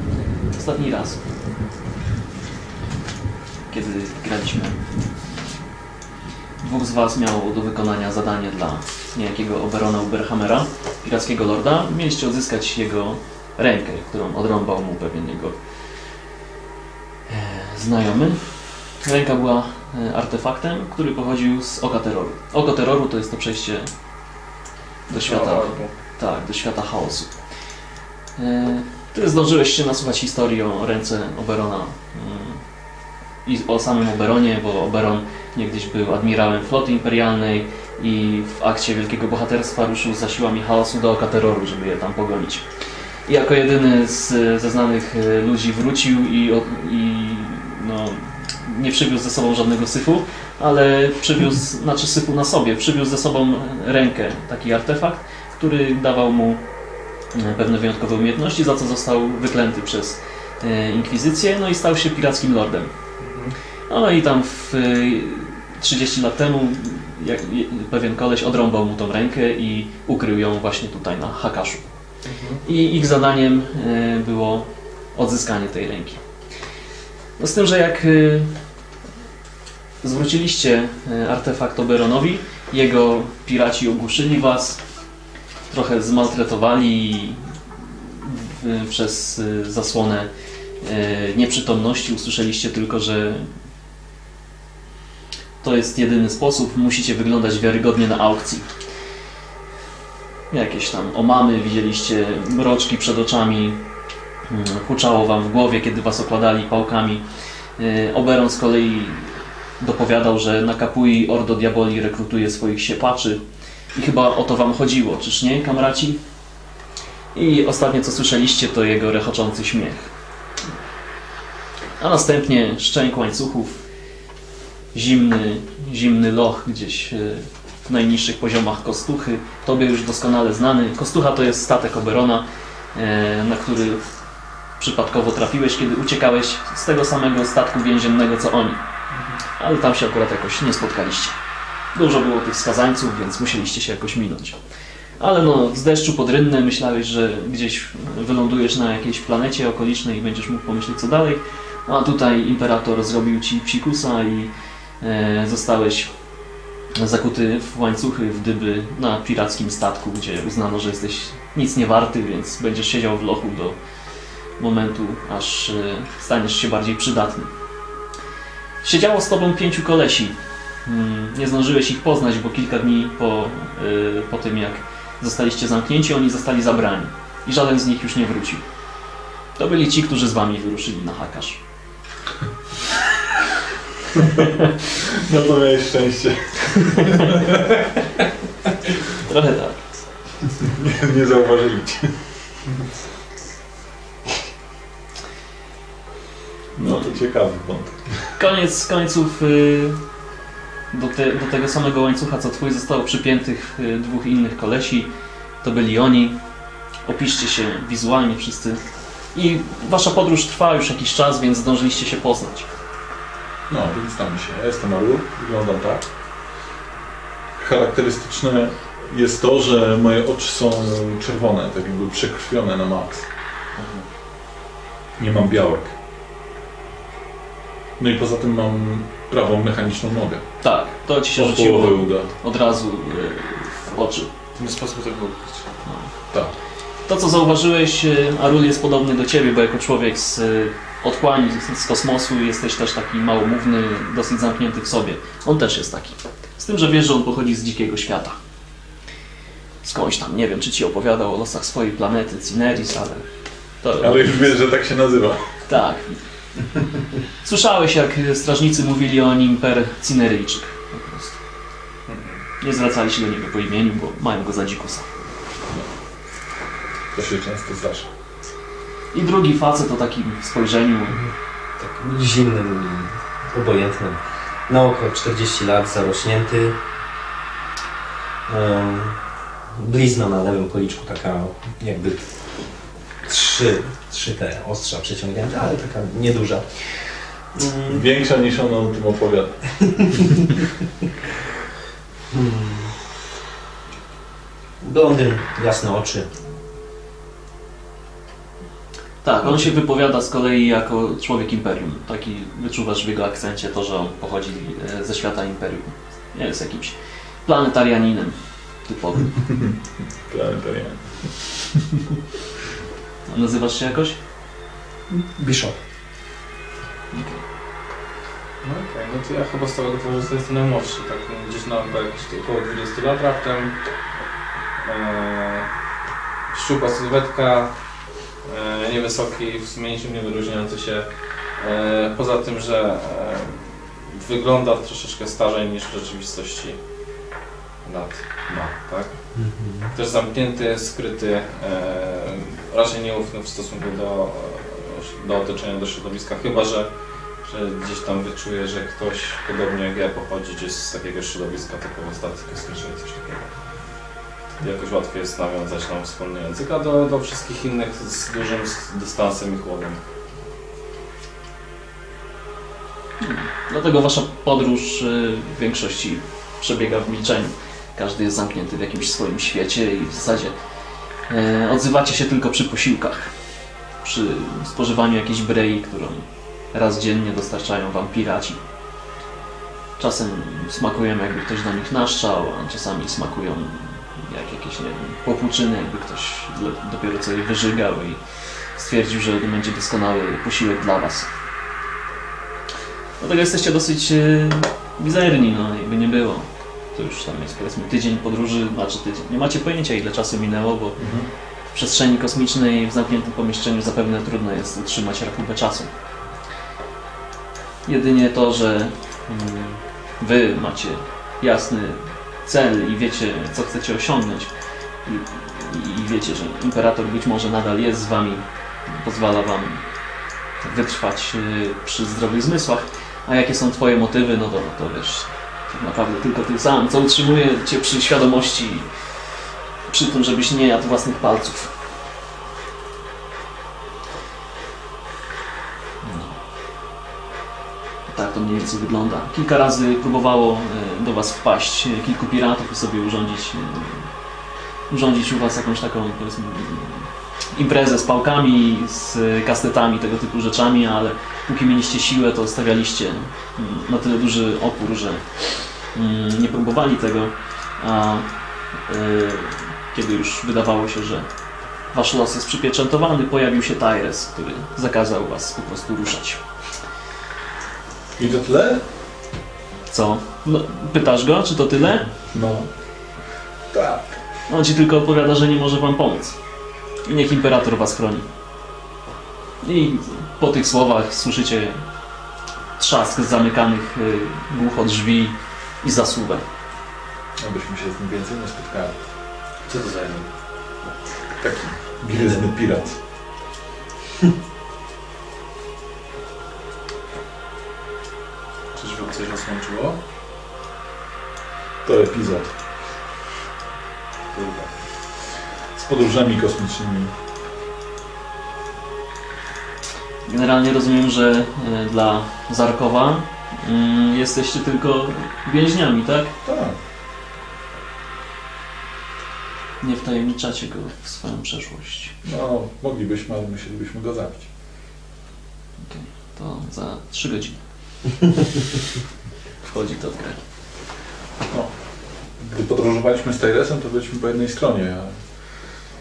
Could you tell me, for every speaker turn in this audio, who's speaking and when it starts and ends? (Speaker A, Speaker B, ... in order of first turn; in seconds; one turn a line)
Speaker A: 0.6-1.2
Speaker A: 3.7-4.8
Speaker A: 6.6-15.6
Speaker A: 17.3-23.9
Speaker B: 25.1-25.9
Speaker A: 25.1-27.3
Speaker A: 28.4-32.6
Speaker A: 33.5-42.7
Speaker A: 43.3-56.6
Speaker A: 57.3-62.9
Speaker B: 63.2-63.6
Speaker A: 63.9-71.9
Speaker B: 72.2-72.6
Speaker A: 72.6-76.2
Speaker A: 77.4-78.5
Speaker A: 80.0-84.8
Speaker A: 85.7-90.3
Speaker A: 90.8-93.5
Speaker A: 95.6-98.7
Speaker A: 100.5-103.8
Speaker A: 104.5-107.2
Speaker A: 107.8-113.4
Speaker A: 113.9-116.2
Speaker A: 117.3-120.1
Speaker A: 122.0-123.8
Speaker A: 124.9-134.0
Speaker A: 134.8-138.8
Speaker B: 139.1-139.4
Speaker A: 139.6-141.4
Speaker A: 141.9-144.6
Speaker A: 145.2-156.1
Speaker A: 157.0-163.8
Speaker A: 164.6-167.5
Speaker A: 168.8-178.6
Speaker A: 179.6-181.6
Speaker C: 185.0-187.8
Speaker A: 189.1-189.8
Speaker C: 190.6-192.1
Speaker C: 196.8-198.2
Speaker A: 196.8-197.2
Speaker A: 198.4-200.0
Speaker A: 200.9-205.1
Speaker A: 205.6-206.4
Speaker A: 207.1-208.8
Speaker A: 209.3-212.7
Speaker C: 213.7-216.0
Speaker C: 217.6-223.3
Speaker C: 225.2-225.9
Speaker C: 228.0-230.4
Speaker A: 230.6-234.3
Speaker C: 231.4-232.3
Speaker A: 235.8-236.2
Speaker A: 237.1-248.3
Speaker A: 249.8-253.3
Speaker A: 253.8-254.6
Speaker C: 254.0-255.5
Speaker A: 255.7-256.2
Speaker A: 257.4-261.4
Speaker B: 262.1-262.4
Speaker A: 262.6-265.1
Speaker C: 267.1-268.1
Speaker A: 269.1-271.2
Speaker D: 271.8-276.8
Speaker D: 278.5-279.2
Speaker D: 279.7-282.4
Speaker D: 283.2-288.0
Speaker C: 287.9-290.2
Speaker D: 292.3-293.0
Speaker D: 294.8-296.3
Speaker A: 299.2-309.5
Speaker C: 310.3-311.5
Speaker A: 313.3-314.2
Speaker D: 315.1-315.8
Speaker A: 317.1-317.4
Speaker B: 318.6-323.8
Speaker B: 324.8-325.7
Speaker B: 326.5-336.8
Speaker B: 337.8-346.9
Speaker C: 339.4-339.9
Speaker B: 347.4-353.5
Speaker B: 354.6-360.0
Speaker A: 363.2-370.6
Speaker A: 371.3-373.3
Speaker A: 374.0-378.6
Speaker A: 380.0-388.2
Speaker A: 388.8-391.3
Speaker A: 393.2-401.0
Speaker C: 401.0-401.3
Speaker A: 401.7-405.9
Speaker A: 407.9-414.5
Speaker A: 415.1-419.8
Speaker A: 420.6-428.9
Speaker A: 429.9-431.7
Speaker C: 436.0-436.3
Speaker A: 438.1-444.1
Speaker A: 444.9-458.2
Speaker A: 458.9-461.3
Speaker A: 461.9-466.4
Speaker C: 468.2-468.9
Speaker A: 469.9-472.1
Speaker C: 472.3-472.7
Speaker C: 473.7-474.1
Speaker A: 474.5-476.4
Speaker A: 477.1-478.3
Speaker A: 479.6-481.8
Speaker A: 482.8-486.4
Speaker C: 487.4-488.9
Speaker B: 489.6-490.3
Speaker C: 491.4-493.0
Speaker B: 499.0-499.9
Speaker C: 501.9-502.5
Speaker B: 504.3-504.7
Speaker C: 505.7-507.1
Speaker A: 510.3-516.3
Speaker C: 516.5-516.8
Speaker A: 519.8-522.1
Speaker C: 522.2-524.5
Speaker A: 525.8-527.6
Speaker A: 529.6-530.4
Speaker C: 532.4-535.2